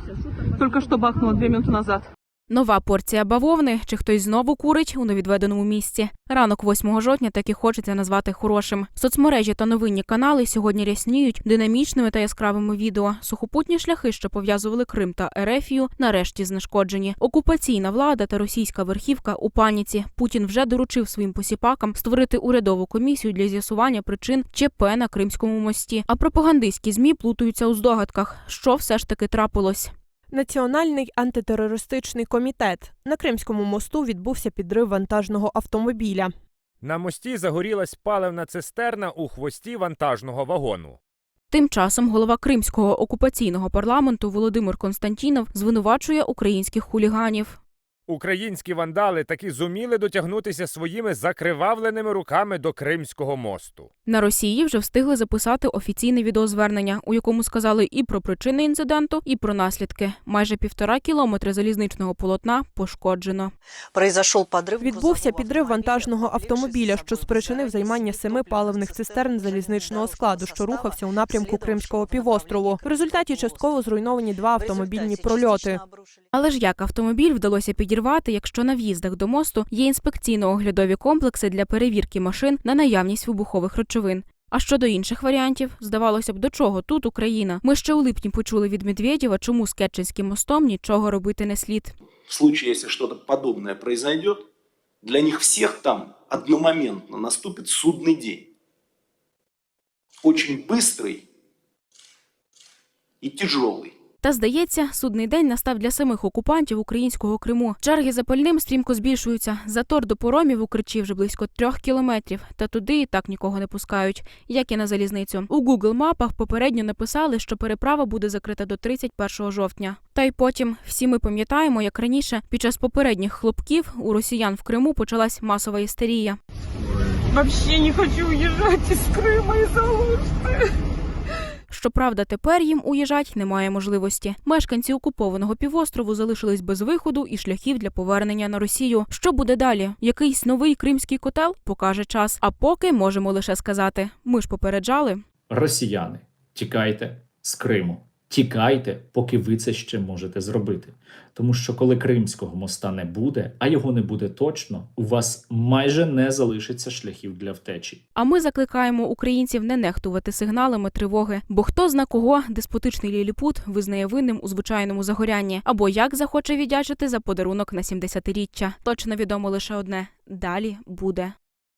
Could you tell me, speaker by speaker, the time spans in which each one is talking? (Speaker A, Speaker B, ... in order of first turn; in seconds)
Speaker A: 0.5-2.1, 127.3-130.5
Speaker B: 2.5-29.9, 41.5-47.6, 54.0-63.5, 76.3-92.0, 104.2-126.4, 131.7-145.2, 158.2-171.3
Speaker C: 30.3-36.3, 64.8-75.8
Speaker D: 36.8-41.0, 48.1-53.9
Speaker E: 63.9-73.8, 74.6-76.2
Speaker F: 92.3-94.4, 95.0-98.5, 100.2-101.2, 103.2-103.9
Speaker G: 145.5-158.0